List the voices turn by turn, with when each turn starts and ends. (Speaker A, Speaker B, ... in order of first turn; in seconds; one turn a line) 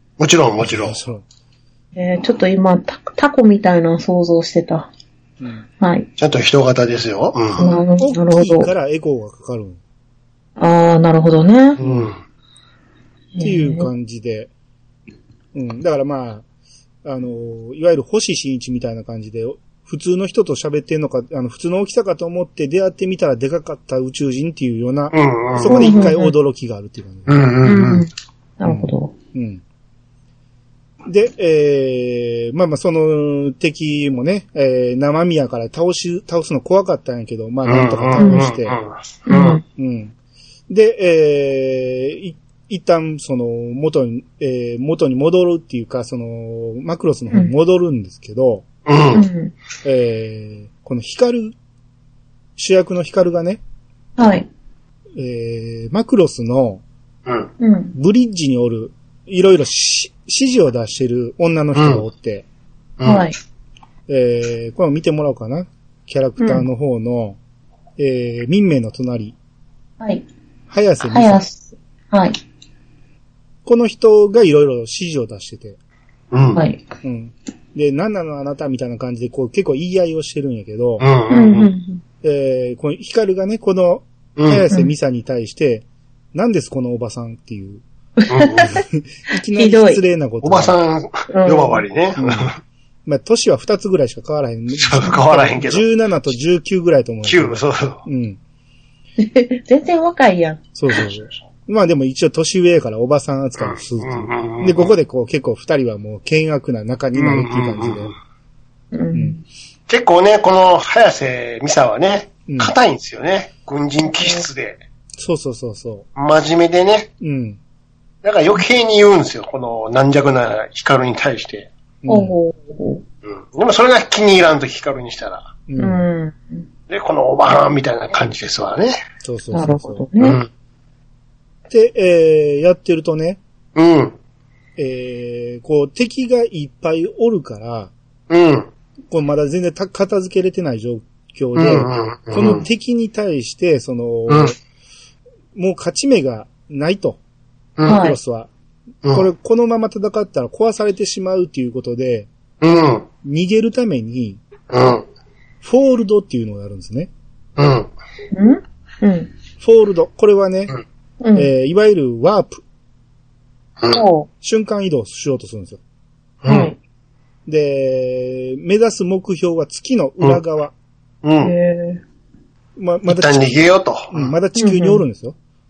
Speaker A: 0.2-1.0
Speaker B: 0.6-1.2
Speaker C: 1.9-4.9
Speaker B: 5.4-5.7
Speaker C: 5.8-6.1
Speaker A: 6.2-7.7
Speaker C: 7.6-8.7
Speaker B: 7.8-9.8
Speaker C: 10.6-11.8
Speaker A: 11.8-12.2
Speaker B: 11.8-12.1
Speaker C: 13.3-13.9
Speaker B: 13.4-14.5
Speaker B: 15.5-16.4
Speaker B: 17.0-27.4
Speaker A: 25.1-26.1
Speaker C: 25.6-26.3
Speaker A: 27.3-28.1
Speaker C: 27.6-29.1
Speaker B: 28.6-29.6
Speaker B: 31.1-38.8
Speaker A: 37.7-39.6
Speaker C: 38.2-38.5
Speaker C: 39.3-39.6
Speaker B: 39.8-40.1
Speaker B: 40.7-48.7
Speaker A: 48.9-49.3
Speaker C: 49.1-49.5
Speaker B: 49.8-51.5
Speaker B: 52.6-53.6
Speaker C: 54.2-54.5
Speaker B: 55.2-56.8
Speaker C: 57.6-58.0
Speaker B: 58.0-62.5
Speaker A: 61.8-62.0
Speaker A: 63.0-63.3
Speaker C: 63.0-63.4
Speaker B: 64.1-67.4
Speaker C: 66.4-66.7
Speaker B: 68.0-69.4
Speaker B: 70.7-71.4
Speaker C: 71.0-72.4
Speaker B: 73.7-75.8
Speaker A: 76.3-76.6
Speaker C: 76.5-76.8
Speaker B: 77.0-81.1
Speaker A: 81.0-81.7
Speaker C: 81.3-82.0
Speaker B: 82.2-87.8
Speaker A: 84.4-84.7
Speaker C: 88.2-88.8
Speaker A: 88.3-88.8
Speaker B: 88.7-90.8
Speaker C: 89.5-90.0
Speaker A: 90.4-92.6
Speaker C: 91.3-91.8
Speaker B: 92.2-92.5
Speaker B: 93.1-98.4
Speaker A: 94.8-95.9
Speaker A: 97.2-98.0
Speaker C: 99.2-100.6
Speaker B: 100.8-108.1
Speaker A: 103.6-104.9
Speaker A: 107.2-108.1
Speaker C: 108.9-109.4
Speaker A: 109.9-114.8
Speaker B: 112.5-112.7
Speaker C: 114.2-114.4
Speaker B: 115.2-116.0
Speaker A: 116.2-117.1
Speaker B: 117.2-117.6
Speaker A: 118.2-121.7
Speaker B: 122.0-122.3
Speaker C: 122.1-123.0
Speaker A: 123.2-125.5
Speaker B: 125.7-126.0
Speaker C: 125.8-126.6
Speaker A: 126.9-129.0
Speaker B: 129.2-130.1
Speaker C: 129.5-130.4
Speaker A: 130.2-130.5
Speaker B: 131.7-133.4
Speaker A: 133.8-134.2
Speaker B: 134.8-137.9
Speaker A: 138.3-138.7
Speaker B: 139.1-144.6
Speaker A: 141.6-142.6
Speaker A: 144.3-144.5
Speaker B: 145.6-147.2
Speaker A: 147.8-148.0
Speaker C: 147.8-148.2
Speaker B: 147.9-148.5
Speaker B: 149.1-152.3
Speaker A: 152.6-153.1
Speaker B: 153.2-154.4
Speaker A: 154.7-155.1
Speaker B: 155.6-157.1
Speaker A: 157.6-157.9
Speaker C: 158.3-159.3
Speaker B: 159.6-160.7
Speaker C: 161.2-161.5
Speaker B: 161.3-162.6
Speaker C: 163.9-164.3
Speaker B: 164.4-165.8
Speaker A: 166.4-166.7
Speaker C: 166.5-166.8
Speaker B: 167.5-170.7
Speaker A: 171.2-171.5
Speaker C: 171.4-172.0
Speaker B: 172.8-173.5
Speaker A: 173.1-174.3
Speaker B: 174.1-175.4
Speaker C: 174.6-175.0